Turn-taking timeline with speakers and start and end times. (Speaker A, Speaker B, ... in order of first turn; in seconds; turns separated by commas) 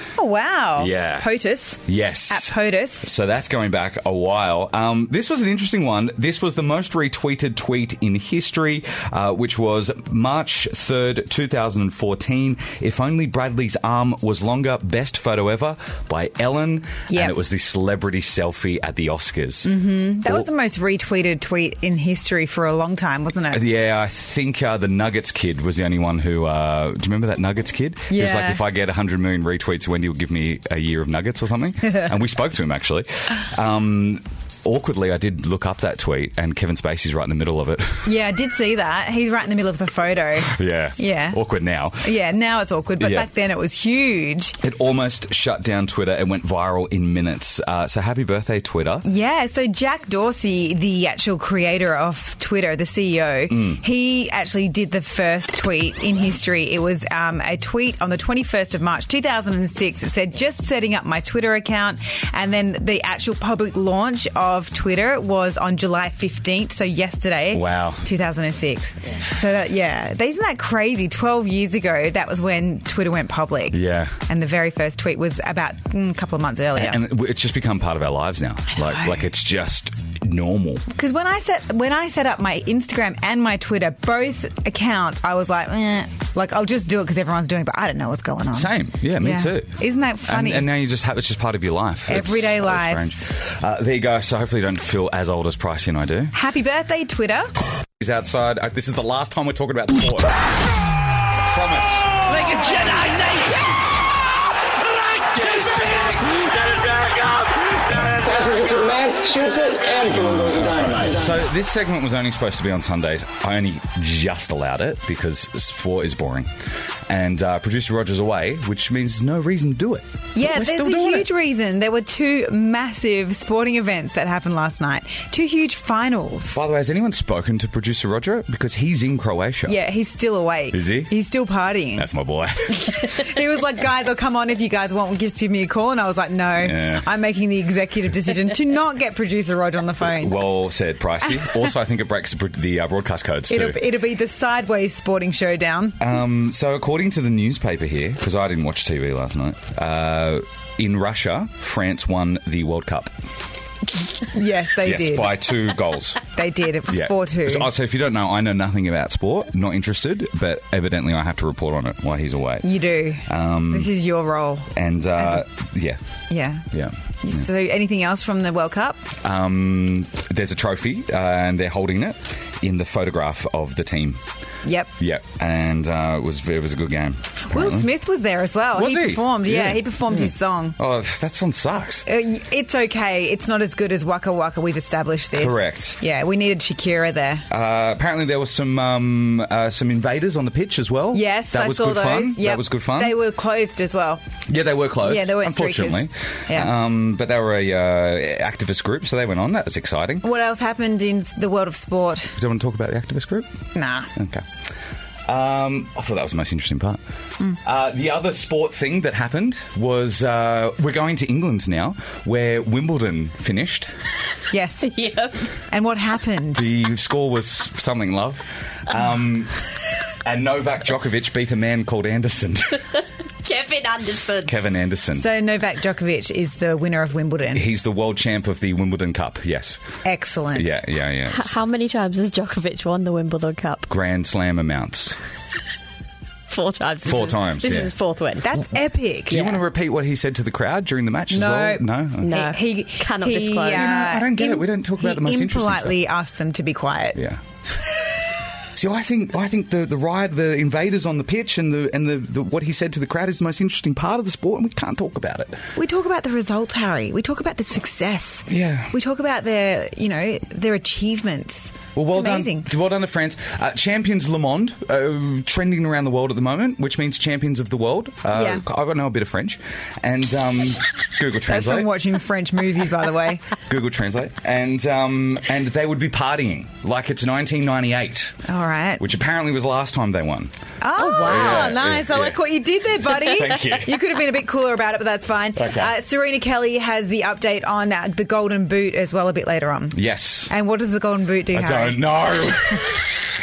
Speaker A: 0.2-3.1, Speaker B: 0.8-1.3, Speaker B: 1.9-19.7, Speaker A: 17.1-17.4, Speaker A: 19.6-23.6, Speaker B: 23.5-38.1, Speaker A: 28.1-28.6, Speaker A: 31.9-32.1, Speaker A: 38.0-41.4, Speaker B: 40.4-42.1, Speaker A: 42.0-44.6, Speaker B: 43.0-43.3, Speaker B: 44.6-49.1, Speaker A: 49.0-77.0, Speaker B: 53.5-53.8, Speaker B: 67.5-68.1, Speaker B: 73.7-74.2, Speaker B: 76.8-80.8, Speaker A: 78.9-79.2, Speaker A: 80.9-90.7, Speaker B: 88.5-96.3, Speaker A: 92.1-93.0, Speaker A: 96.3-97.5, Speaker B: 98.0-100.5, Speaker B: 101.4-103.8, Speaker B: 105.3-106.6, Speaker C: 108.2-111.1, Speaker B: 110.0-116.5, Speaker B: 117.1-121.3, Speaker A: 120.3-126.6, Speaker B: 126.5-129.8, Speaker A: 129.7-132.1, Speaker B: 130.7-131.1, Speaker B: 131.9-133.2, Speaker A: 132.7-140.4, Speaker B: 136.6-137.1, Speaker B: 140.0-143.8, Speaker A: 141.4-141.7, Speaker A: 143.5-146.0, Speaker B: 146.0-153.1, Speaker A: 154.2-155.5, Speaker B: 154.8-163.9, Speaker A: 156.3-157.7, Speaker A: 162.6-165.4, Speaker B: 164.7-166.0, Speaker A: 166.3-166.7, Speaker B: 166.7-167.5, Speaker A: 167.2-169.1, Speaker B: 169.2-174.2, Speaker A: 174.6-174.9, Speaker B: 175.0-177.9, Speaker A: 177.4-180.8, Speaker B: 178.7-182.1, Speaker A: 182.1-187.5, Speaker B: 185.3-186.0, Speaker B: 187.5-193.2, Speaker A: 191.1-194.2, Speaker B: 194.5-200.2, Speaker A: 195.0-196.7, Speaker A: 200.2-202.4, Speaker B: 202.4-203.5, Speaker A: 203.8-204.1, Speaker B: 204.2-204.5, Speaker B: 205.3-207.0, Speaker B: 207.6-213.9, Speaker A: 214.5-214.9, Speaker D: 214.8-215.5, Speaker A: 215.7-216.7, Speaker B: 216.5-219.6, Speaker B: 220.2-222.9, Speaker D: 223.4-224.6, Speaker B: 224.4-225.3, Speaker A: 225.1-227.7, Speaker B: 227.5-229.8, Speaker A: 230.0-230.8, Speaker B: 230.5-231.5, Speaker D: 231.3-233.9, Speaker B: 233.9-235.2, Speaker D: 236.5-238.5, Speaker B: 237.0-237.9, Speaker A: 238.4-239.6, Speaker B: 239.3-242.4, Speaker A: 241.3-247.2, Speaker D: 242.2-244.1, Speaker B: 243.6-246.0, Speaker B: 247.2-247.4, Speaker B: 248.8-255.6, Speaker A: 255.8-262.7, Speaker B: 258.5-258.9, Speaker B: 261.9-271.9, Speaker A: 268.3-268.6, Speaker A: 271.5-273.4, Speaker B: 273.7-278.4, Speaker A: 278.5-279.0, Speaker B: 279.0-282.4, Speaker A: 280.8-292.2, Speaker B: 283.1-284.0, Speaker B: 285.6-285.9, Speaker B: 289.9-290.5, Speaker B: 291.5-293.1